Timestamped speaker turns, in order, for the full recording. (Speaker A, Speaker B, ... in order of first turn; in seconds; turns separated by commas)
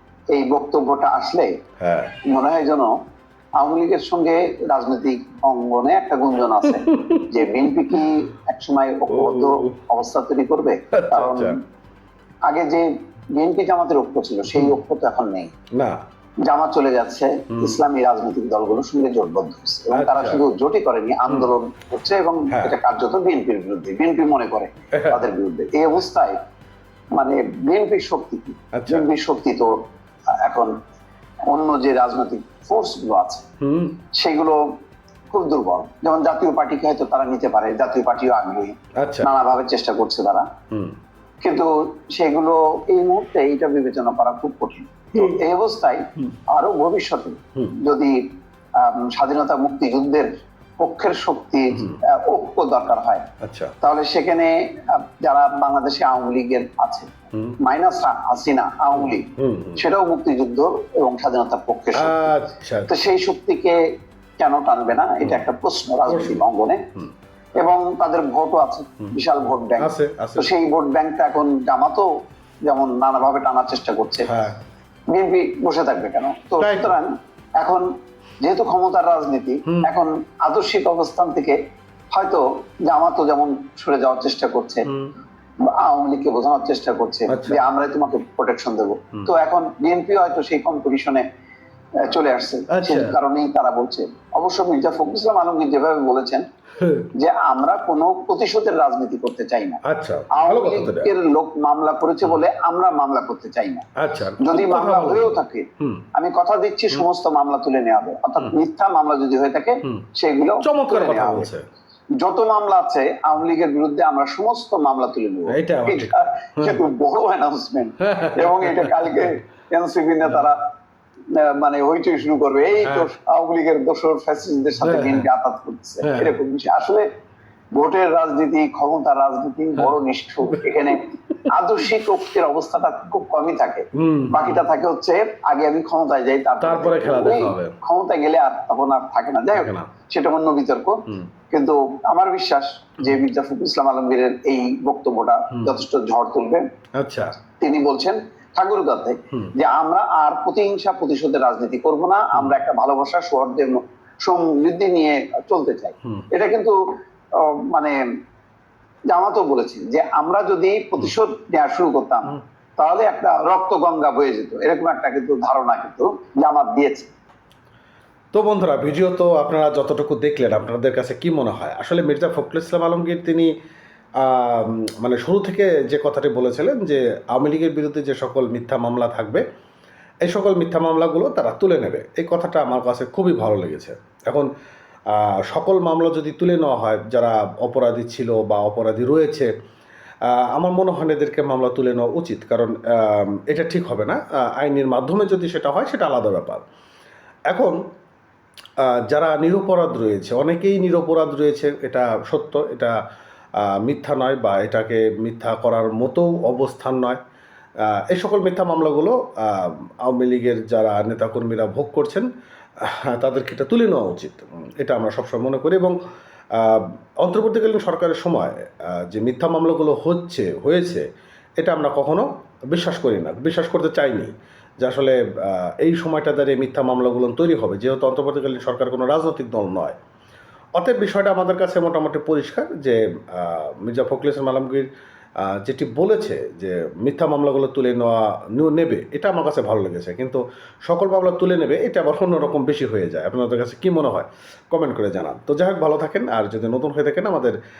Speaker A: 0.3-1.5, Speaker B: 1.8-2.1, Speaker A: 2.2-2.9, Speaker A: 3.6-11.6, Speaker B: 6.6-7.4, Speaker B: 9.1-9.7, Speaker B: 10.9-11.5, Speaker A: 12.5-15.5, Speaker B: 14.5-14.8, Speaker A: 16.4-26.4, Speaker B: 17.5-17.8, Speaker B: 19.9-20.4, Speaker B: 21.3-21.5, Speaker B: 25.0-25.3, Speaker A: 27.2-29.7, Speaker B: 28.7-29.1, Speaker A: 30.4-30.7, Speaker A: 31.5-33.5, Speaker B: 33.6-34.0, Speaker A: 34.1-34.6, Speaker A: 35.3-38.7, Speaker B: 39.0-39.3, Speaker A: 39.2-40.5, Speaker A: 41.4-48.1, Speaker B: 45.1-45.4, Speaker A: 48.8-53.3, Speaker B: 51.7-52.0, Speaker B: 53.4-53.7, Speaker A: 53.8-62.3, Speaker B: 59.0-59.8, Speaker B: 62.0-62.9, Speaker A: 62.9-63.8, Speaker A: 64.4-66.8, Speaker B: 66.1-67.1, Speaker A: 67.6-72.1, Speaker B: 69.8-70.5, Speaker A: 72.7-74.3, Speaker B: 74.3-74.6, Speaker A: 75.1-77.9, Speaker B: 76.6-77.0, Speaker A: 78.4-81.6, Speaker B: 79.7-79.9, Speaker A: 82.1-84.9, Speaker B: 84.9-85.1, Speaker A: 85.6-91.2, Speaker B: 87.3-87.6, Speaker A: 92.0-96.5, Speaker B: 92.7-93.2, Speaker B: 96.8-97.1, Speaker A: 97.2-99.8, Speaker B: 99.9-101.1, Speaker A: 100.3-103.9, Speaker B: 104.0-106.0, Speaker A: 104.4-111.5, Speaker B: 110.6-111.6, Speaker A: 112.2-120.6, Speaker B: 115.5-116.8, Speaker B: 118.0-119.3, Speaker A: 121.3-127.1, Speaker B: 122.8-123.1, Speaker B: 124.8-125.3, Speaker B: 126.0-126.3, Speaker A: 127.8-146.6, Speaker B: 130.5-130.8, Speaker B: 134.0-134.6, Speaker B: 136.6-137.8, Speaker B: 139.5-139.9, Speaker B: 145.5-145.8, Speaker B: 147.0-147.3, Speaker A: 147.6-156.8, Speaker A: 157.4-158.0, Speaker A: 159.1-167.1, Speaker B: 168.3-173.5, Speaker B: 174.2-179.4, Speaker B: 180.2-184.5, Speaker B: 185.1-189.5, Speaker B: 190.5-196.6, Speaker B: 197.5-197.8, Speaker B: 199.1-202.9, Speaker B: 203.7-207.2, Speaker B: 208.1-212.2, Speaker B: 212.8-215.9, Speaker B: 216.6-221.0, Speaker B: 221.6-230.0, Speaker B: 230.8-234.9, Speaker B: 235.4-247.5